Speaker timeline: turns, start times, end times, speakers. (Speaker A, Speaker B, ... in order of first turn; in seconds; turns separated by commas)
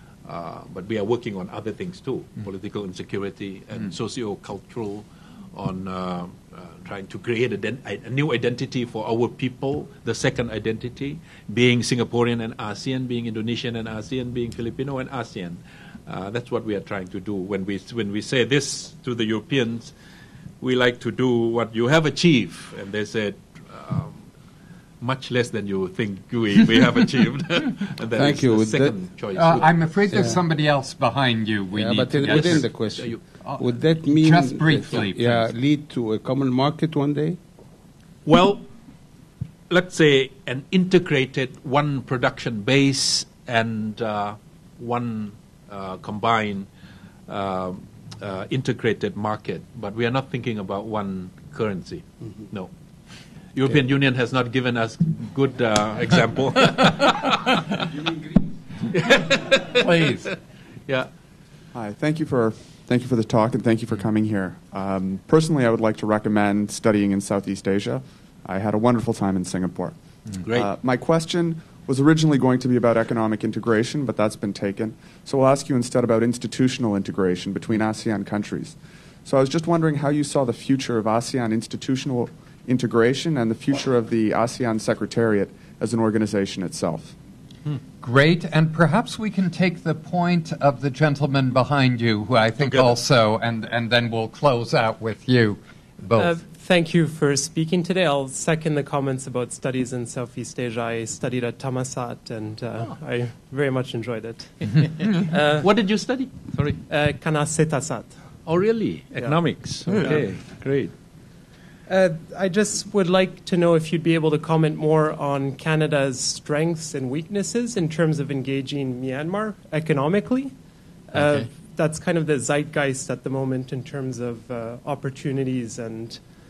Speaker A: 0.2-19.9, Speaker A: 20.6-24.2, Speaker A: 25.0-30.3, Speaker B: 28.1-28.9, Speaker C: 29.4-32.7, Speaker B: 31.7-37.4, Speaker A: 32.0-33.2, Speaker C: 33.4-35.5, Speaker A: 38.2-38.7, Speaker A: 39.7-46.7, Speaker A: 47.3-52.7, Speaker A: 53.5-57.9, Speaker A: 58.8-60.3, Speaker C: 59.8-60.3, Speaker D: 61.7-69.9, Speaker A: 70.4-70.7, Speaker D: 70.5-87.1, Speaker C: 88.0-96.3, Speaker A: 92.6-92.9, Speaker E: 96.2-105.7, Speaker A: 105.5-106.8, Speaker E: 106.9-108.1, Speaker A: 108.5-110.9, Speaker E: 109.2-110.3, Speaker E: 111.9-120.5, Speaker E: 121.1-126.2